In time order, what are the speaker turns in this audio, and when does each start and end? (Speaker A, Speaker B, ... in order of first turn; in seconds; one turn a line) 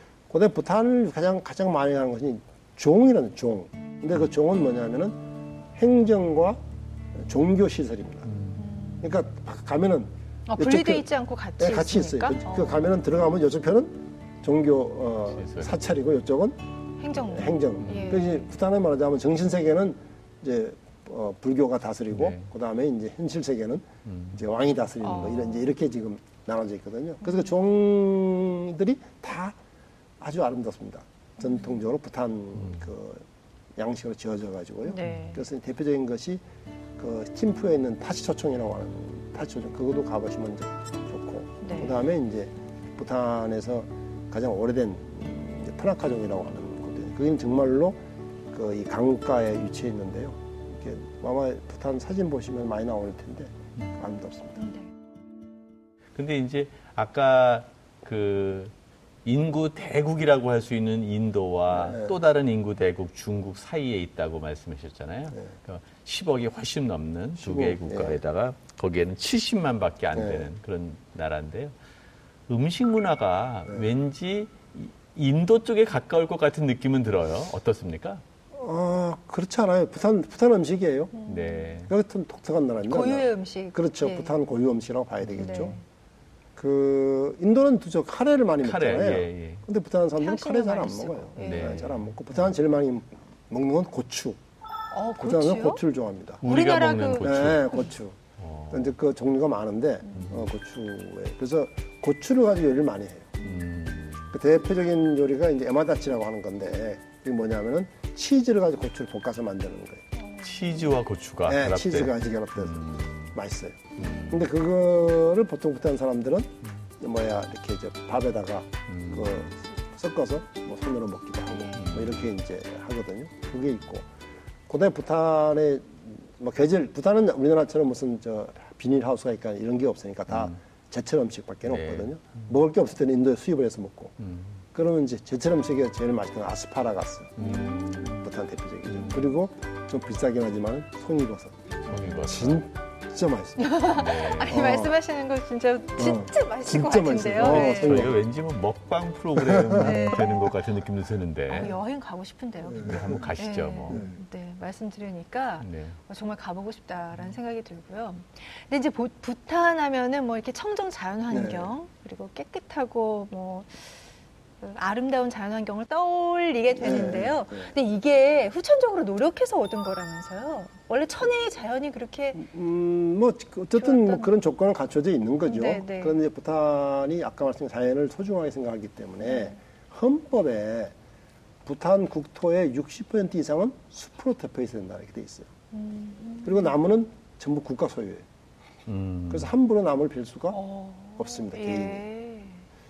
Speaker A: 0.3-5.2
Speaker A: 5.8-6.6
Speaker A: 7.1-8.3
Speaker B: 8.3-8.6
Speaker C: 8.6-9.2
Speaker A: 9.0-11.1
Speaker C: 10.5-12.8
Speaker A: 11.6-16.6
Speaker B: 15.4-15.7
Speaker C: 17.0-18.3
Speaker A: 17.1-29.6
Speaker B: 17.8-18.1
Speaker B: 22.1-22.5
Speaker B: 24.1-24.4
Speaker C: 25.0-25.6
Speaker C: 27.2-27.5
Speaker A: 30.2-33.2
Speaker A: 33.8-36.4
Speaker C: 34.9-35.4
Speaker A: 37.0-48.0
Speaker C: 41.6-42.0
Speaker A: 48.5-54.6
Speaker C: 54.6-54.9
Speaker B: 56.1-58.7
Speaker B: 59.2-71.7
Speaker A: 61.7-62.2
Speaker A: 67.4-68.2
Speaker A: 70.1-70.5
Speaker B: 72.5-78.2
Speaker A: 78.5-81.1
Speaker C: 81.1-81.7
Speaker B: 81.2-81.9
Speaker A: 81.9-85.8
Speaker C: 82.9-84.4
Speaker C: 85.4-85.8
Speaker A: 86.5-94.4
Speaker B: 88.6-89.6
Speaker C: 90.2-91.9
Speaker B: 91.4-92.1
Speaker C: 94.9-95.8
Speaker A: 95.2-96.4
Speaker B: 96.4-97.7
Speaker C: 96.4-97.9
Speaker A: 97.2-98.2
Speaker B: 98.4-98.8
Speaker A: 98.7-103.4
Speaker B: 100.1-100.5
Speaker B: 103.4-104.3
Speaker A: 104.3-110.1
Speaker C: 110.2-110.7
Speaker B: 110.4-113.3
Speaker A: 111.4-124.0
Speaker B: 114.0-114.4
Speaker B: 118.9-119.5
Speaker C: 121.5-121.8
Speaker B: 121.7-122.2
Speaker A: 124.7-134.2
Speaker B: 130.3-130.6
Speaker B: 131.7-132.4
Speaker B: 134.2-134.6
Speaker A: 134.7-137.4
Speaker B: 137.4-138.2
Speaker C: 137.4-138.2
Speaker A: 138.1-144.9
Speaker B: 141.8-142.6
Speaker C: 141.9-142.3
Speaker C: 143.6-148.1
Speaker B: 143.9-144.6
Speaker A: 146.0-148.2
Speaker B: 147.4-151.7
Speaker A: 149.3-150.3
Speaker C: 149.8-150.5
Speaker C: 151.5-164.1
Speaker A: 152.6-153.3
Speaker B: 152.8-154.0
Speaker A: 153.9-154.2
Speaker B: 155.6-156.0
Speaker A: 161.3-161.7
Speaker C: 164.6-172.4
Speaker A: 166.7-167.7
Speaker A: 172.3-180.9
Speaker C: 173.8-174.3
Speaker C: 175.4-176.2
Speaker C: 179.2-179.6
Speaker A: 181.6-185.5
Speaker C: 185.7-186.7
Speaker A: 186.4-188.2
Speaker B: 188.9-189.5
Speaker A: 189.3-190.6
Speaker C: 190.5-192.6
Speaker A: 191.2-192.1